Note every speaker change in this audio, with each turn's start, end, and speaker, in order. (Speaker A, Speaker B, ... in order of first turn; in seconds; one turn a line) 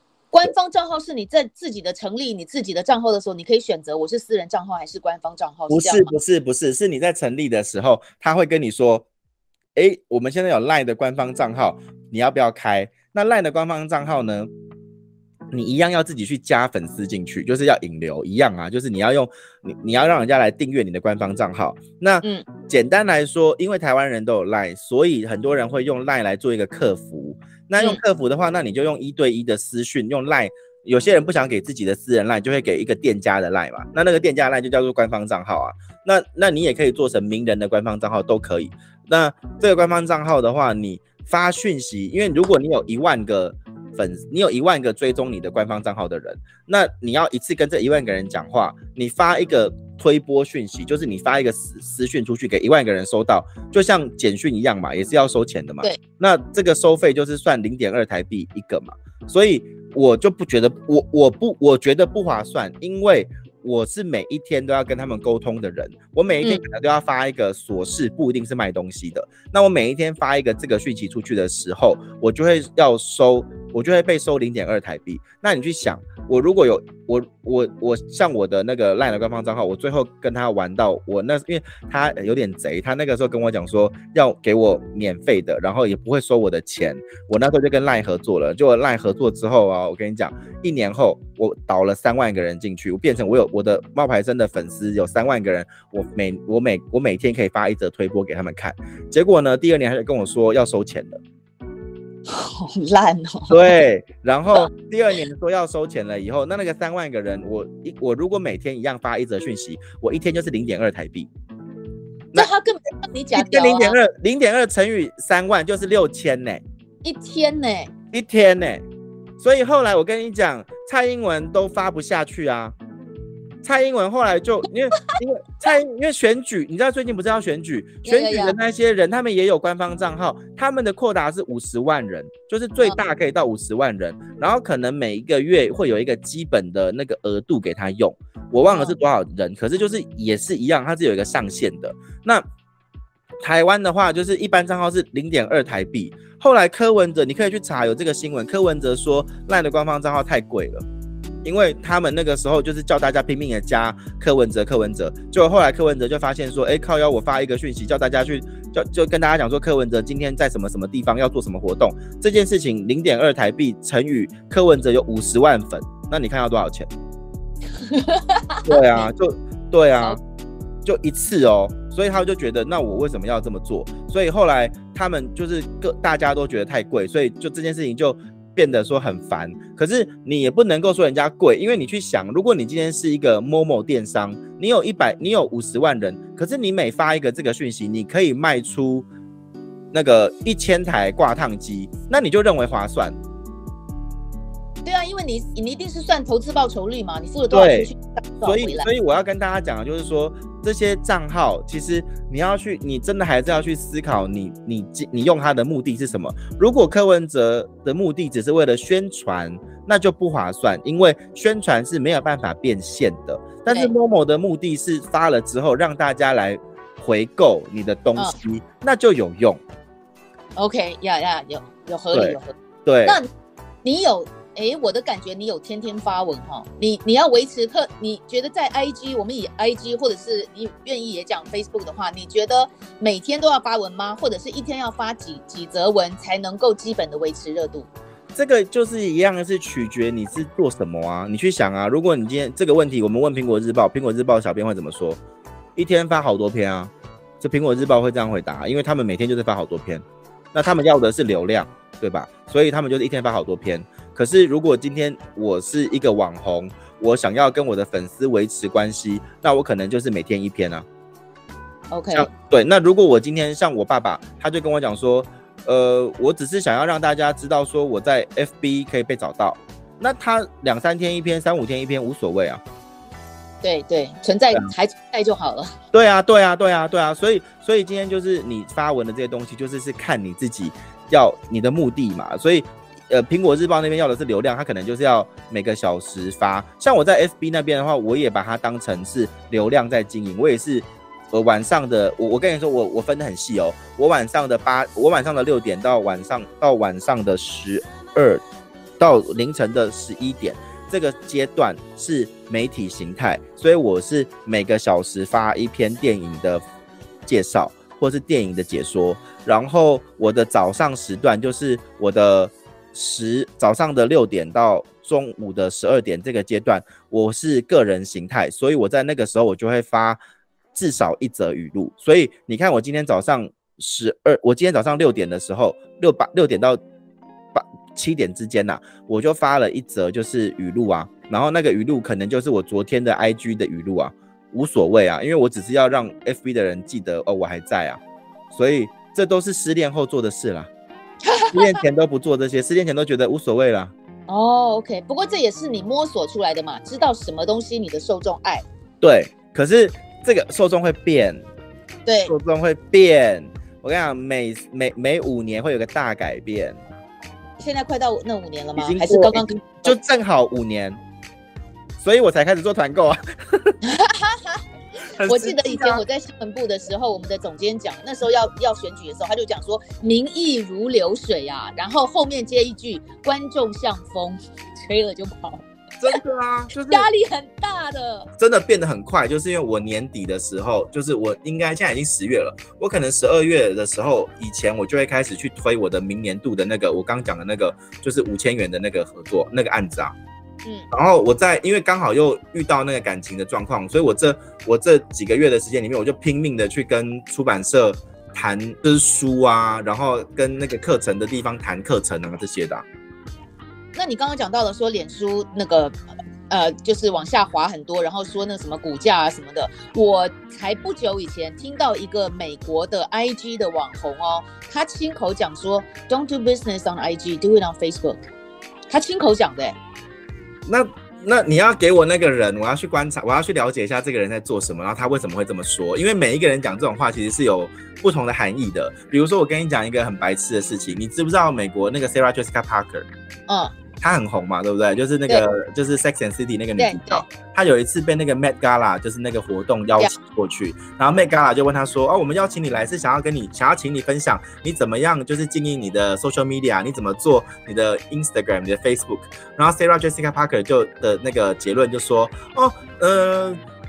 Speaker A: 0.3-6.1
Speaker B: 5.7-9.1
Speaker B: 9.7-14.5
Speaker B: 15.5-101.2
Speaker A: 102.3-103.7
Speaker B: 103.5-111.3
Speaker A: 112.3-114.0
Speaker B: 113.3-116.6
Speaker A: 117.0-117.9
Speaker B: 118.1-118.8
Speaker B: 119.4-122.7
Speaker B: 123.6-142.4
Speaker A: 128.0-128.6
Speaker A: 138.7-138.9
Speaker B: 143.4-150.8
Speaker B: 151.4-166.9
Speaker A: 167.7-169.1
Speaker B: 168.7-170.2
Speaker B: 170.8-189.1
Speaker B: 189.9-193.2
Speaker A: 194.8-198.9
Speaker B: 197.5-197.9
Speaker B: 198.4-219.6
Speaker A: 220.6-222.5
Speaker B: 222.1-223.2
Speaker A: 223.8-237.9
Speaker B: 238.3-245.2
Speaker B: 245.8-260.9
Speaker A: 261.9-262.3
Speaker B: 262.1-272.6
Speaker A: 273.6-275.7
Speaker B: 275.9-298.4
Speaker B: 299.0-306.6
Speaker B: 307.2-320.2
Speaker B: 320.7-326.8
Speaker B: 327.5-340.7
Speaker A: 341.2-341.8
Speaker B: 341.5-343.9
Speaker A: 344.3-348.6
Speaker B: 349.0-351.4
Speaker A: 352.1-352.3
Speaker B: 352.2-356.8
Speaker A: 357.6-359.9
Speaker B: 358.8-361.0
Speaker B: 362.0-363.8
Speaker A: 363.8-364.6
Speaker B: 365.1-366.0
Speaker A: 365.2-376.2
Speaker B: 376.0-377.1
Speaker A: 376.9-378.3
Speaker B: 378.4-390.1
Speaker B: 390.9-402.8
Speaker A: 403.9-405.9
Speaker A: 406.5-418.3
Speaker A: 418.9-419.8
Speaker B: 420.7-433.1
Speaker A: 433.5-433.7
Speaker B: 434.0-453.6
Speaker A: 436.8-437.2